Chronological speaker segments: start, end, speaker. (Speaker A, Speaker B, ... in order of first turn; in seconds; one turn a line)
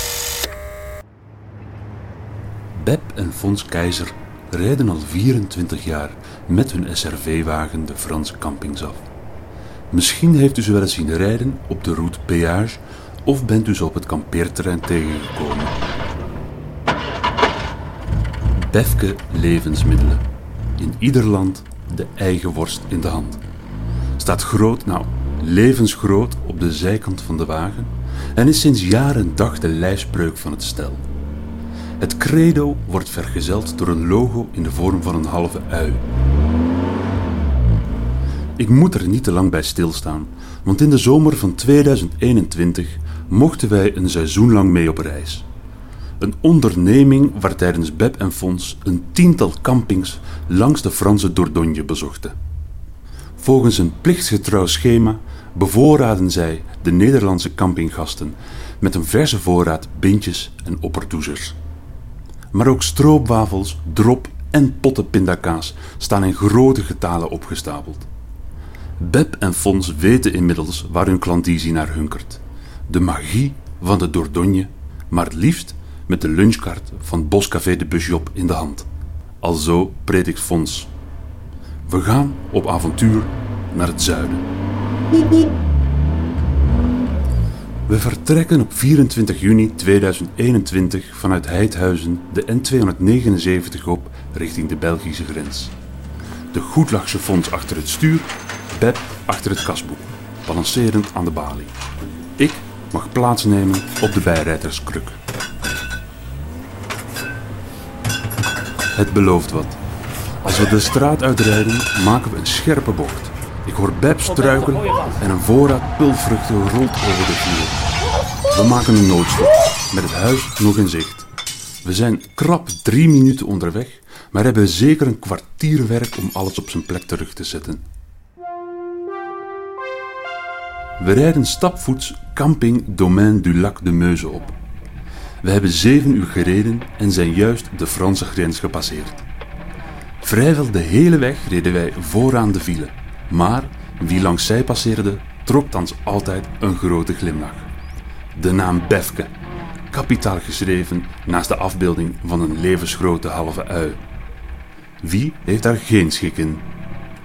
Speaker A: 2.7-9.0
Speaker A: 9.9-15.8
Speaker A: 18.5-20.2
Speaker A: 20.8-23.4
Speaker A: 24.2-31.0
Speaker A: 32.0-36.0
Speaker A: 38.6-45.5
Speaker A: 46.2-52.3
Speaker A: 53.4-61.6
Speaker A: 62.5-68.1
Speaker A: 69.0-78.9
Speaker A: 79.4-80.9
Speaker A: 81.9-84.4
Speaker A: 87.9-95.7
Speaker A: 96.5-101.7
Speaker A: 102.4-105.2
Speaker A: 108.9-109.8
Speaker A: 110.4-117.8
Speaker A: 118.5-121.3
Speaker A: 121.8-127.8
Speaker A: 131.0-134.5
Speaker A: 135.4-139.2
Speaker A: 140.2-147.7
Speaker A: 148.3-149.3
Speaker A: 149.9-154.0
Speaker A: 155.0-156.6